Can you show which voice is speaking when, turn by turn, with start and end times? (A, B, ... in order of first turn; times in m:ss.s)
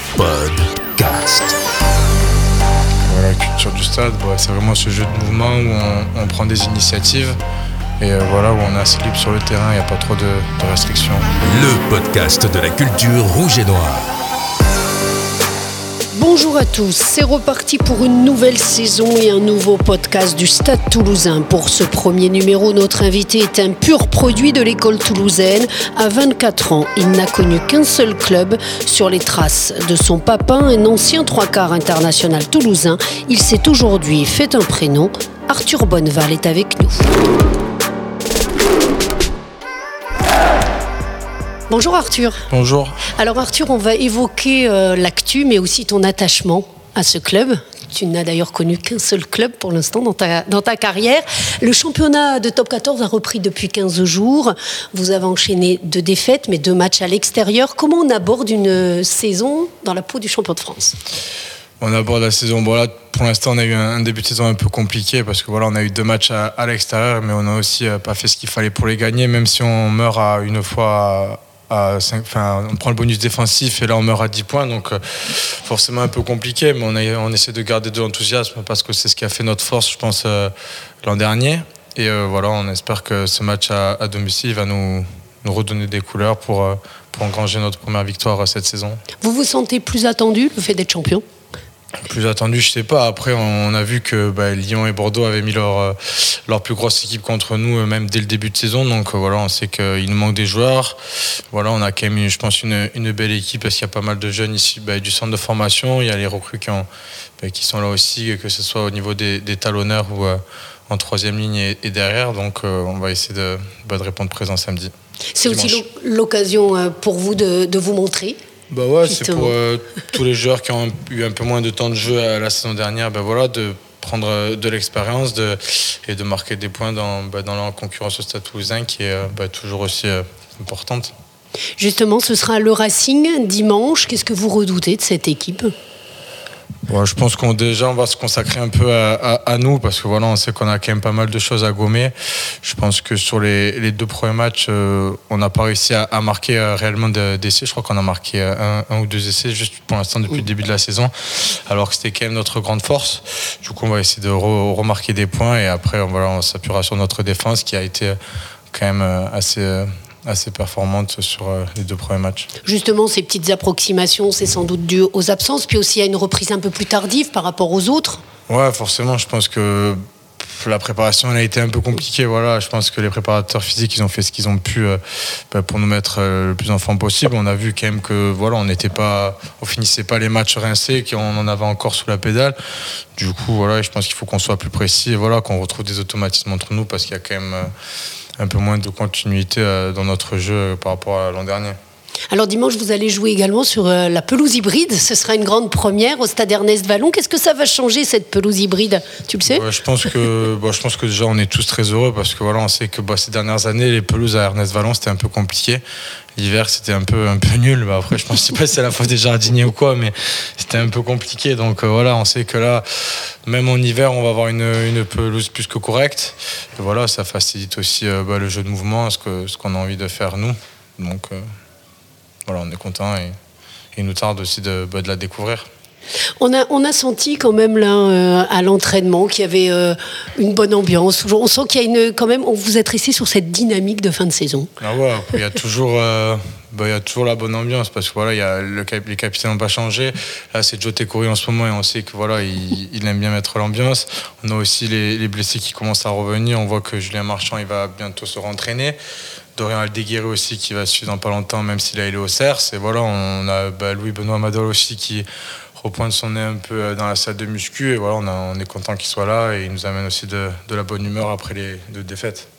0:00.2-0:01.6 A
0:03.1-0:07.4 B
0:08.0-0:11.3 B
0:11.4-0:14.1 A
0:16.1-0:37.1 C
0:41.7-0:42.4 C
0:42.5-0:43.0 B
0:43.1-1:01.0 C
1:01.8-1:20.5 B
1:21.0-1:29.0 B
1:29.2-1:31.2 C
1:32.0-1:41.0 B
1:41.5-1:46.9 B
1:47.4-1:54.9 B
1:55.3-1:58.4 C
1:55.4-1:55.8 B
1:58.7-2:11.1 B
1:59.0-1:59.5 C
2:11.8-2:15.7 C
2:16.9-2:38.2 B
2:38.7-2:42.5 B
2:42.6-2:48.2 C
2:48.5-2:55.0 B
2:55.5-3:02.6 B
3:03.2-3:07.7 B
3:08.4-3:11.8 B
3:12.3-3:19.6 C
3:19.4-3:25.8 B
3:26.4-3:41.4 B
3:42.4-3:43.3 B
3:43.9-3:45.6 B
3:46.4-3:54.7 C
3:54.8-4:09.0 B
4:09.6-4:15.2 B
4:15.8-4:22.4 B